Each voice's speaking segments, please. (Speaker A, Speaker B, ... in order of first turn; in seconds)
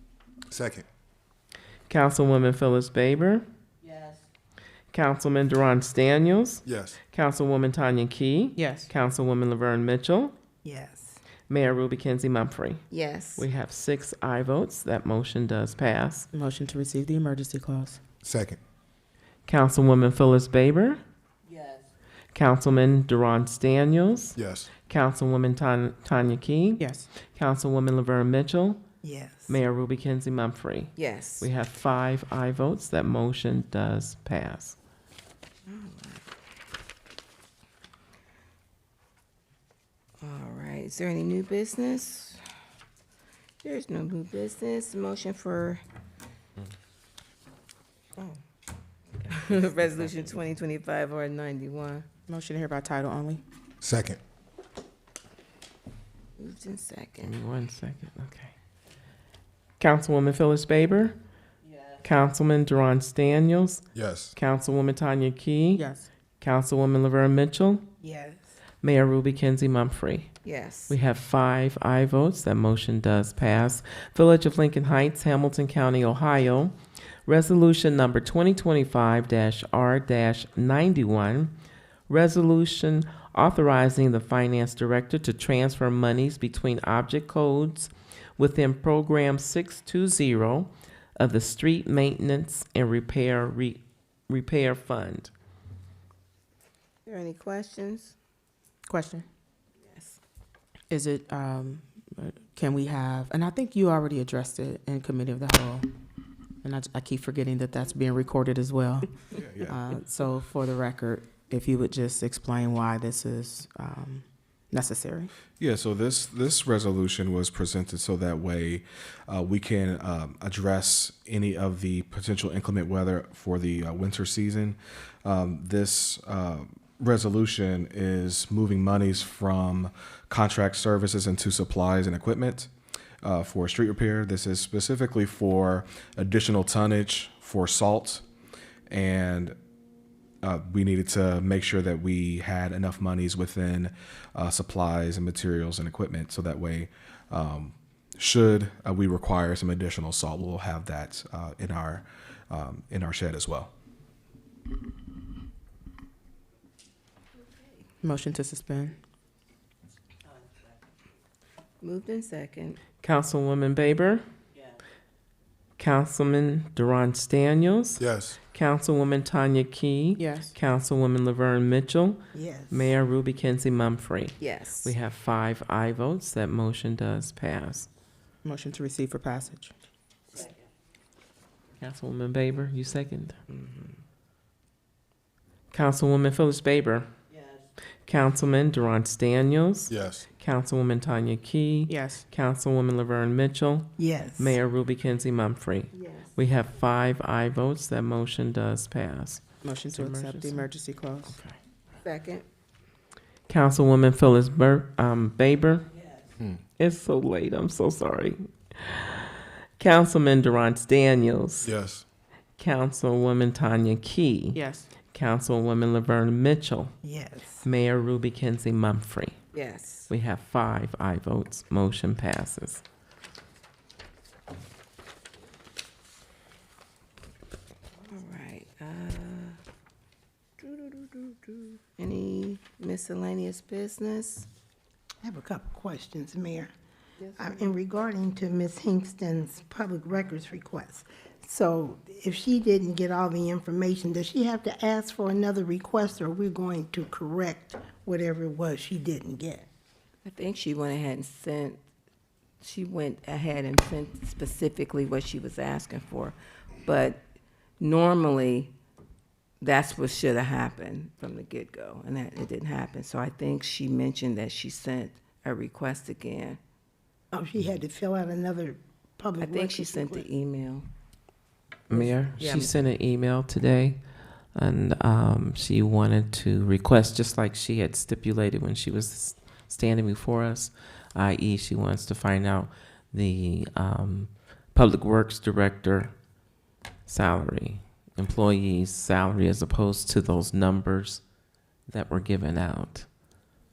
Speaker A: 0.5-0.8, 6.7-7.0, 18.2-18.6, 24.4-24.7, 53.8-54.2, 64.0-64.3, 168.0-168.4, 189.9-190.3, 211.6-212.0
Speaker B: 1.9-3.4, 4.9-10.3, 11.5-12.8, 13.4-16.3, 19.5-21.0, 22.3-28.8, 29.5-34.8, 57.2-58.5, 59.8-61.1, 62.0-63.8, 64.4-65.8, 66.4-67.8, 68.8-70.3, 70.9-76.7, 77.3-81.5, 82.1-95.3, 163.0-164.2, 165.8-177.9, 181.8-183.4, 185.7-187.1, 188.1-200.7, 201.3-201.6, 203.5-205.9, 206.8-211.7, 212.6-214.6, 215.1-216.9, 217.6-219.4, 220.1-222.8, 271.9-274.0, 274.6-286.1, 287.1-291.2, 291.9-293.1
Speaker C: 8.6-8.9, 16.3-18.0, 26.8-27.1, 52.3-53.4, 65.8-66.1, 98.9-99.3, 100.9-105.9, 106.6-109.1, 109.7-115.3, 158.0-159.0, 170.2-170.5, 178.4-179.7, 191.9-192.3, 199.6-201.4, 214.6-214.9
Speaker D: 10.6-11.2, 29.0-29.6, 68.0-68.5, 172.3-172.9, 194.0-194.6, 217.0-217.7, 235.2-236.7, 237.4-249.7, 267.3-270.3
Speaker E: 12.9-13.5, 21.5-21.8, 31.0-31.5, 35.7-36.3, 40.2-42.4, 43.6-45.8, 49.2-52.1, 56.4-57.4, 70.4-71.0, 97.1-98.2, 99.8-100.2, 161.8-162.8, 174.4-174.9, 183.5-184.0, 195.9-196.4, 202.0-202.4, 219.5-220.1, 228.0-229.6, 230.6-234.5, 237.2-237.8, 250.2-251.8, 252.6-257.2, 257.8-258.7, 259.6-266.6, 269.4-270.9, 271.9-272.8
Speaker F: 109.4-109.8, 115.6-132.7, 133.2-138.2, 138.9-139.6, 140.4-153.7